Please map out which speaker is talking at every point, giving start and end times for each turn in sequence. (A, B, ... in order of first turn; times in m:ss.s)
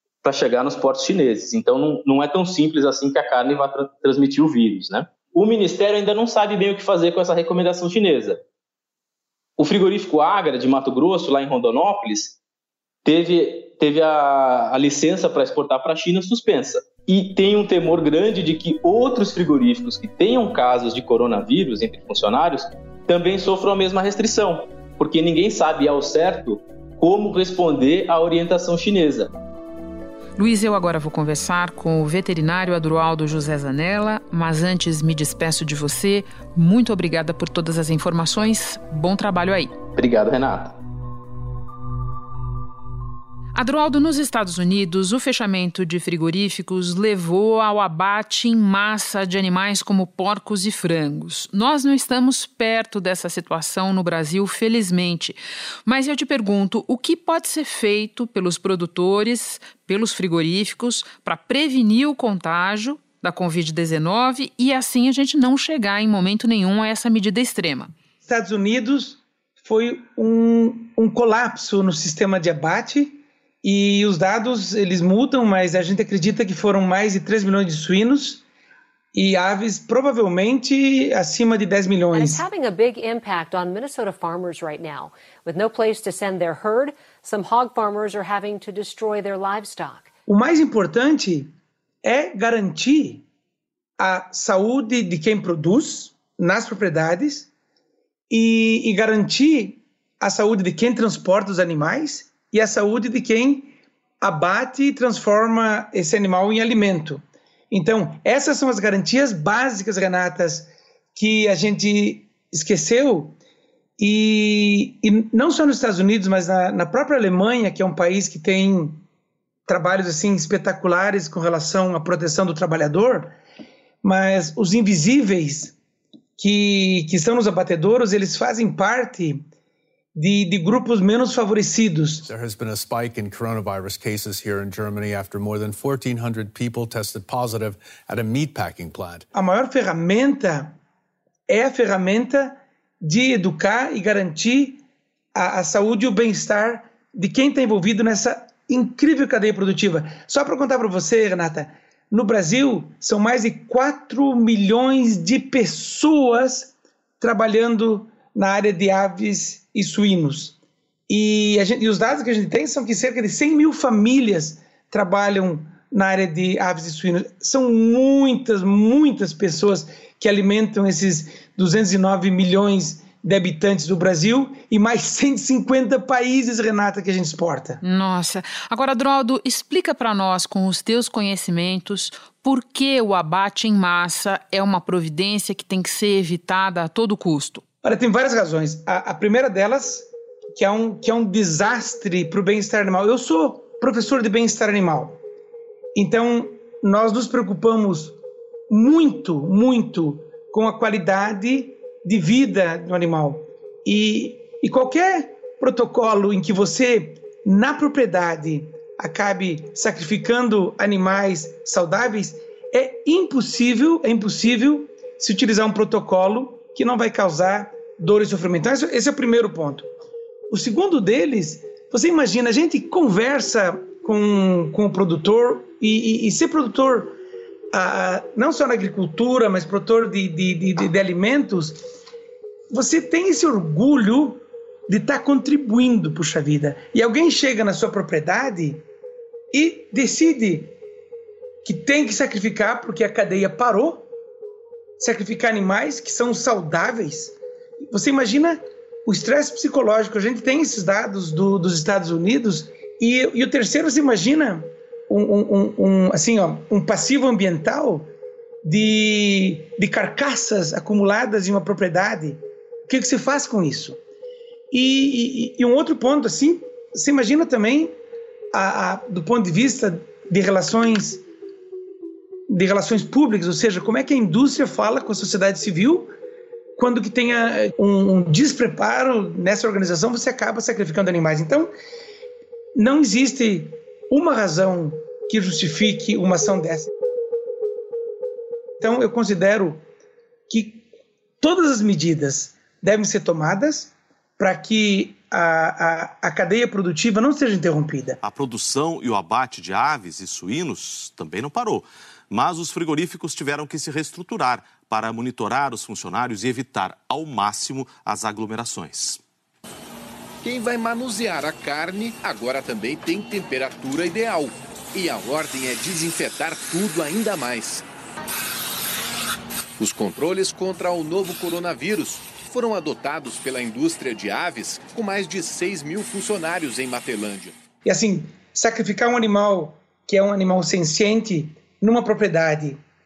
0:00.2-0:08.4 A
0:09.6-0:12.4 A
0:13.0-0:29.3 A
0:30.4-0:39.7 B
0:40.0-0:40.8 A
0:43.5-1:07.9 B
1:08.2-1:18.4 C
1:19.1-1:22.5 C
1:22.1-1:30.1 D
1:30.3-1:31.5 C
1:32.0-1:33.2 C
1:34.0-1:37.5 C
1:38.3-1:53.4 C
1:54.0-1:59.0 C
1:59.7-2:03.4 C
2:04.0-2:05.8 C
2:06.4-2:09.4 C
2:10.2-2:12.3 C
2:12.3-2:19.2 E
2:19.3-2:20.8 C
2:21.5-2:24.8 C
2:25.4-2:40.6 C
2:41.1-2:57.8 C
2:57.8-3:07.6 B
3:07.8-3:15.2 C
3:15.9-3:18.2 C
3:18.7-3:39.9 C
3:40.5-3:47.2 C
3:47.7-3:51.8 C
3:52.7-3:58.8 C
3:59.5-4:00.7 C
4:01.6-4:04.1 C
4:05.0-4:07.4 C
4:07.9-4:18.1 C
4:18.6-4:24.0 C
4:24.7-4:27.9 C
4:28.5-4:31.2 C
4:32.5-4:36.1 C
4:36.8-4:41.7 C
4:42.8-4:46.9 C
4:48.8-4:49.8 C
4:50.5-4:50.8 C
4:51.4-4:58.2 C
4:58.2-5:09.2 F
5:10.4-5:17.8 G
5:19.8-5:27.6 G
5:27.8-5:32.8 C